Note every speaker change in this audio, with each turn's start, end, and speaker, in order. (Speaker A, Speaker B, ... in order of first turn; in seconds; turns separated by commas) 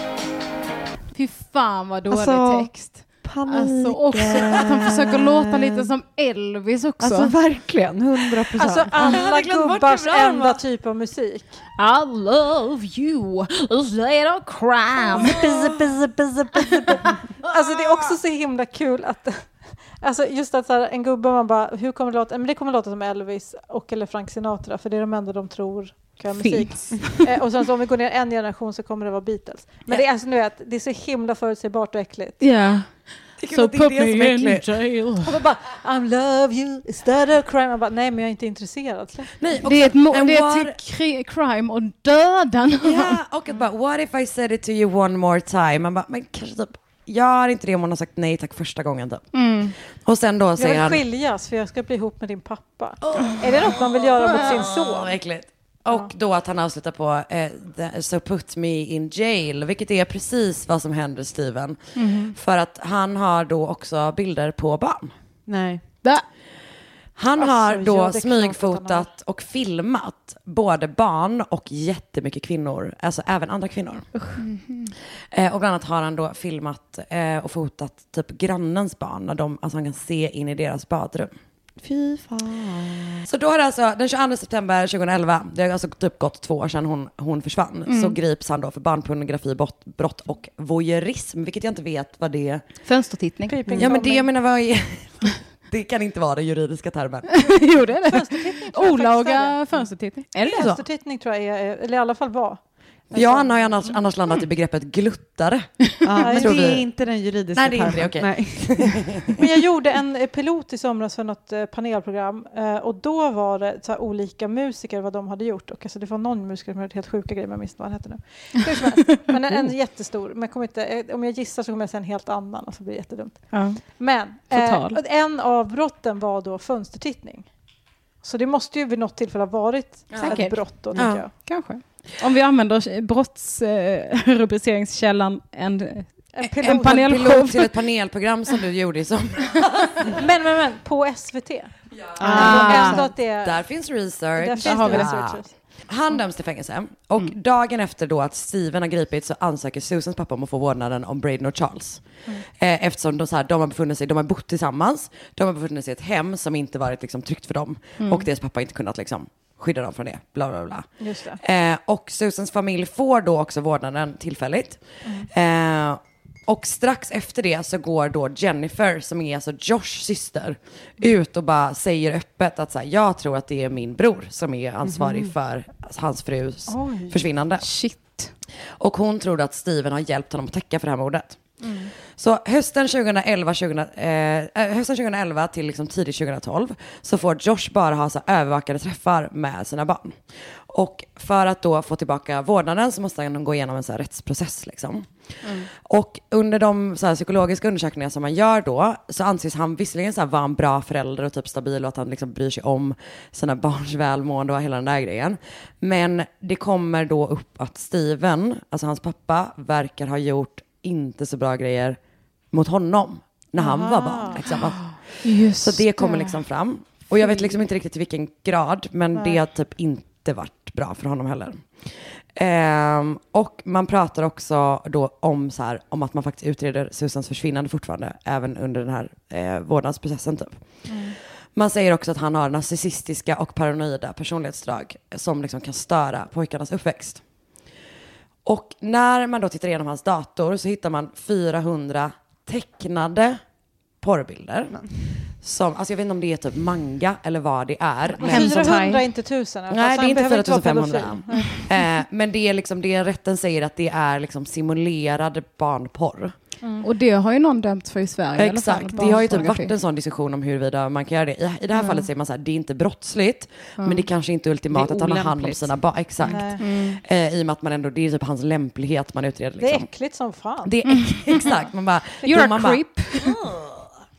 Speaker A: 1.1-7.3, Speaker B: 2.1-5.9, Speaker B: 7.0-9.1, Speaker C: 8.6-11.6, Speaker D: 9.0-10.6, Speaker A: 11.8-15.4, Speaker C: 15.2-32.4, Speaker A: 26.4-27.2, Speaker A: 32.4-35.3, Speaker D: 33.4-34.7, Speaker C: 35.2-39.4, Speaker D: 39.4-40.8, Speaker A: 39.6-43.2, Speaker D: 42.8-49.3, Speaker A: 49.3-49.7, Speaker D: 49.9-51.0, Speaker C: 50.6-55.2, Speaker D: 53.0-65.1, Speaker A: 62.0-62.3, Speaker B: 65.5-65.8, Speaker D: 67.2-74.1, Speaker C: 67.4-69.0, Speaker A: 74.4-74.9, Speaker D: 75.3-81.3, Speaker B: 81.8-83.3, Speaker D: 83.2-92.6, Speaker A: 87.9-88.1, Speaker A: 92.9-93.6, Speaker C: 93.5-94.3, Speaker D: 93.7-97.4, Speaker A: 97.3-100.8, Speaker C: 98.0-99.8, Speaker C: 100.4-103.9, Speaker D: 100.5-100.8, Speaker D: 103.1-106.9, Speaker B: 106.0-109.1, Speaker C: 106.2-106.6, Speaker D: 107.5-109.4, Speaker C: 109.4-127.5, Speaker A: 123.5-123.8, Speaker A: 124.5-125.0, Speaker C: 128.2-131.3, Speaker D: 130.1-131.2, Speaker A: 130.2-130.7, Speaker A: 131.4-137.7, Speaker C: 136.3-137.1, Speaker D: 136.6-140.2, Speaker C: 140.1-143.6, Speaker B: 142.2-143.0, Speaker A: 142.2-143.0, Speaker D: 142.2-177.7, Speaker C: 144.4-145.5, Speaker A: 144.6-145.1, Speaker A: 158.0-158.3, Speaker C: 161.0-161.4, Speaker C: 165.0-165.3, Speaker B: 174.9-175.3, Speaker C: 176.7-177.2, Speaker A: 177.6-178.3, Speaker D: 178.8-181.4, Speaker C: 181.6-181.9, Speaker D: 182.1-212.0, Speaker D: 212.5-230.6, Speaker C: 213.6-214.4, Speaker A: 215.2-216.3, Speaker C: 230.9-231.2, Speaker D: 231.6-237.2, Speaker D: 238.4-243.4, Speaker D: 244.0-244.8, Speaker D: 245.4-248.9, Speaker A: 248.2-249.1, Speaker C: 248.2-251.7, Speaker D: 249.7-256.3, Speaker A: 256.8-259.7, Speaker D: 258.4-269.9, Speaker A: 263.8-264.1, Speaker B: 264.7-265.8, Speaker C: 266.2-266.6, Speaker A: 266.6-267.0, Speaker C: 269.6-270.7, Speaker D: 270.6-273.7, Speaker A: 270.9-271.2, Speaker A: 272.2-273.4